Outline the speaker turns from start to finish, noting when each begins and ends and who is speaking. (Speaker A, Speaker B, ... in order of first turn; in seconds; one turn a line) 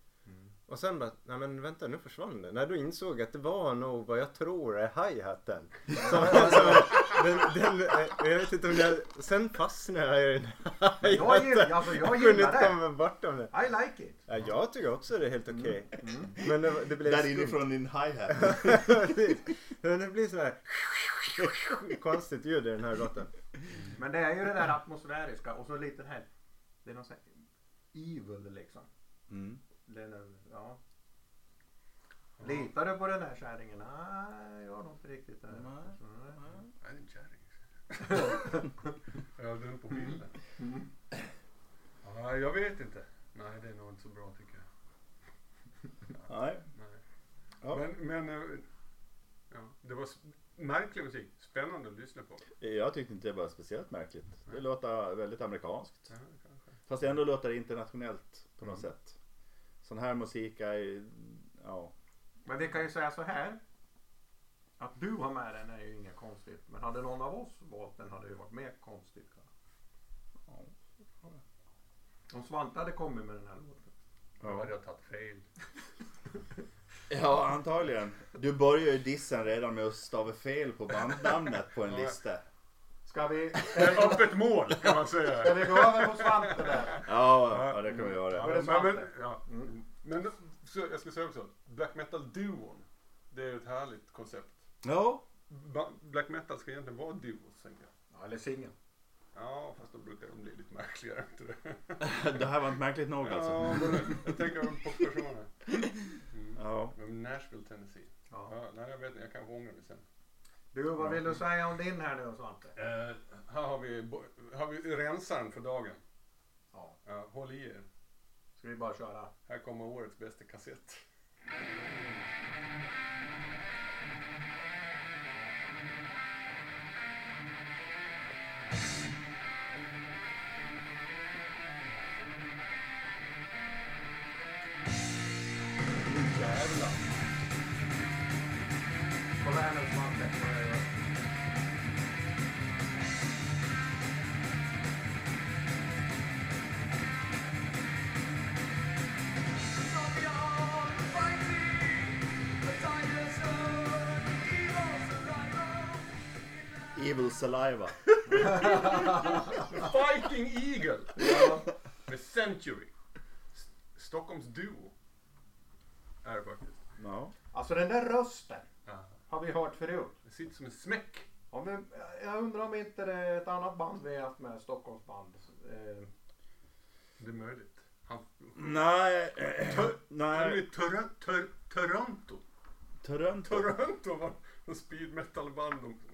Speaker A: 0.7-13.5
Speaker B: 5.9-7.1
Speaker B: 11.0-12.8
Speaker B: 13.5-14.2
Speaker A: 14.3-17.7
Speaker B: 15.5-16.4
Speaker C: 16.4-19.1
Speaker A: 18.3-23.3
Speaker B: 23.9-26.3
Speaker B: 26.8-27.3
Speaker B: 27.9-28.9
Speaker C: 29.3-29.6
Speaker B: 29.9-30.8
Speaker D: 32.4-32.7
Speaker B: 32.4-36.4
Speaker C: 35.5-36.7
Speaker D: 36.8-38.6
Speaker B: 38.0-38.7
Speaker D: 39.4-40.3
Speaker B: 40.1-40.9
Speaker D: 42.0-44.6
Speaker C: 46.3-46.6
Speaker C: 47.6-47.9
Speaker D: 47.7-48.7
Speaker D: 49.5-52.5
Speaker C: 52.6-56.1
Speaker D: 56.1-56.6
Speaker C: 56.9-59.2
Speaker C: 59.8-61.9
Speaker B: 62.5-63.6
Speaker B: 64.8-69.5
Speaker B: 72.3-73.9
Speaker C: 74.4-74.7
Speaker D: 74.4-75.5
Speaker C: 77.1-82.4
Speaker D: 81.8-82.2
Speaker B: 83.1-84.5
Speaker D: 83.7-94.6
Speaker B: 85.2-87.1
Speaker C: 87.0-88.6
Speaker B: 88.3-89.7
Speaker C: 94.8-95.2
Speaker D: 95.5-97.9
Speaker B: 98.1-98.7
Speaker D: 99.3-102.2
Speaker C: 102.0-104.3
Speaker D: 103.2-105.5
Speaker D: 106.3-110.0
Speaker C: 106.6-107.0
Speaker B: 110.7-112.7
Speaker D: 112.8-116.0
Speaker D: 117.0-117.9
Speaker B: 118.6-119.3
Speaker D: 119.5-121.0
Speaker D: 136.0-137.1
Speaker B: 139.4-140.9
Speaker E: 149.8-156.9
Speaker C: 156.9-158.6
Speaker D: 158.3-161.6
Speaker B: 158.3-159.6
Speaker B: 161.2-161.7
Speaker D: 162.1-162.9
Speaker D: 163.5-164.9
Speaker D: 166.2-166.8
Speaker C: 167.0-167.3
Speaker B: 167.5-168.7
Speaker D: 168.9-169.1
Speaker B: 169.3-170.1
Speaker D: 170.2-171.3
Speaker B: 171.5-176.1
Speaker D: 177.2-178.8
Speaker C: 178.6-180.7
Speaker D: 179.7-182.4
Speaker C: 183.0-183.8
Speaker D: 183.4-186.0